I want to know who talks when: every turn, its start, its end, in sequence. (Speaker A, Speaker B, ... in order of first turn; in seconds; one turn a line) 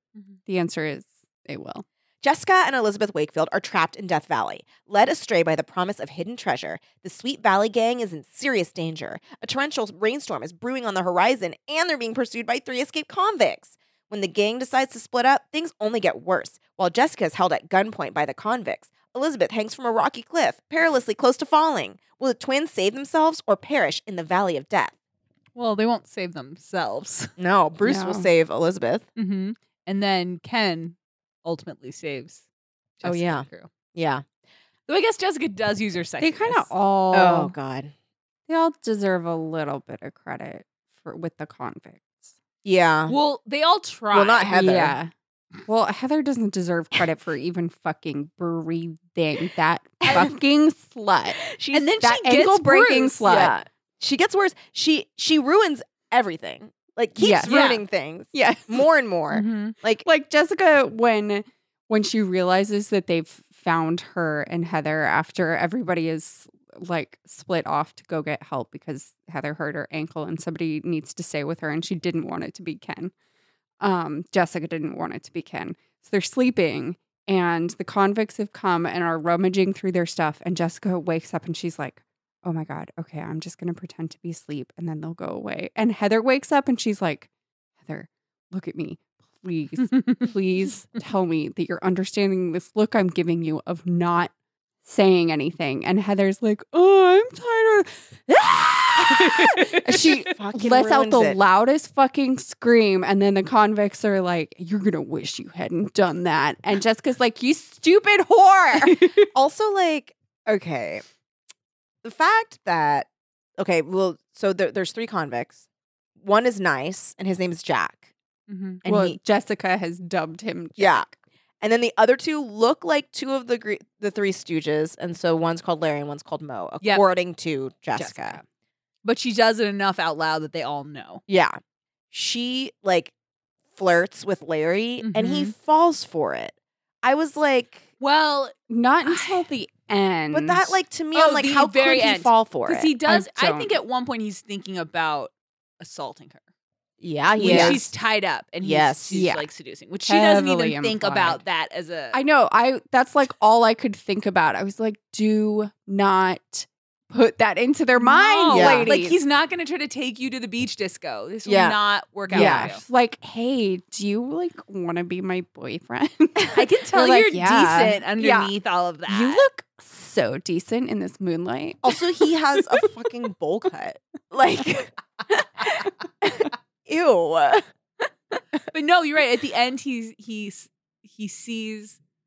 Speaker A: 0.5-1.9
Speaker B: 2.2-24.9
Speaker C: 25.6-27.3
Speaker B: 27.4-29.1
Speaker A: 27.9-28.3
Speaker C: 29.2-32.5
Speaker C: 33.0-33.7
Speaker B: 33.0-34.2
Speaker C: 34.9-36.7
Speaker A: 36.2-37.5
Speaker B: 37.1-37.9
Speaker A: 38.5-42.1
Speaker B: 42.6-43.2
Speaker C: 43.1-44.5
Speaker B: 44.1-45.0
Speaker A: 44.5-45.1
Speaker A: 45.7-51.4
Speaker B: 50.0-50.3
Speaker B: 51.4-52.0
Speaker C: 51.7-53.5
Speaker A: 52.0-53.5
Speaker B: 53.2-60.0
Speaker A: 57.2-57.5
Speaker C: 57.5-57.8
Speaker A: 58.3-58.8
Speaker C: 59.3-59.8
Speaker A: 60.0-73.1
Speaker A: 73.8-87.3
Speaker A: 87.8-94.3
Speaker A: 94.8-109.0
Speaker C: 99.0-100.0
Speaker B: 99.9-101.4
Speaker B: 109.3-111.0
Speaker B: 112.0-115.6
Speaker B: 116.2-118.1
Speaker C: 118.5-118.8
Speaker B: 118.8-119.2
Speaker A: 118.8-121.2
Speaker B: 120.8-121.1
Speaker B: 121.6-128.4
Speaker C: 128.0-128.4
Speaker C: 129.0-131.2
Speaker B: 131.3-131.6
Speaker B: 132.1-133.1
Speaker B: 133.8-137.9
Speaker C: 135.0-135.5
Speaker C: 138.0-139.4
Speaker A: 138.7-140.8
Speaker B: 140.3-142.9
Speaker C: 141.1-146.4
Speaker A: 143.1-143.8
Speaker B: 147.0-147.9
Speaker A: 147.4-147.8
Speaker C: 147.4-152.2
Speaker B: 148.6-149.2
Speaker A: 149.1-149.5
Speaker A: 150.1-151.4
Speaker A: 152.1-159.2
Speaker C: 158.0-162.8
Speaker B: 158.5-158.9
Speaker B: 161.4-161.8
Speaker B: 162.3-162.7
Speaker A: 162.3-168.0
Speaker C: 166.5-169.4
Speaker B: 168.2-168.5
Speaker A: 169.1-171.9
Speaker B: 171.8-174.9
Speaker B: 175.6-177.7
Speaker C: 178.7-182.0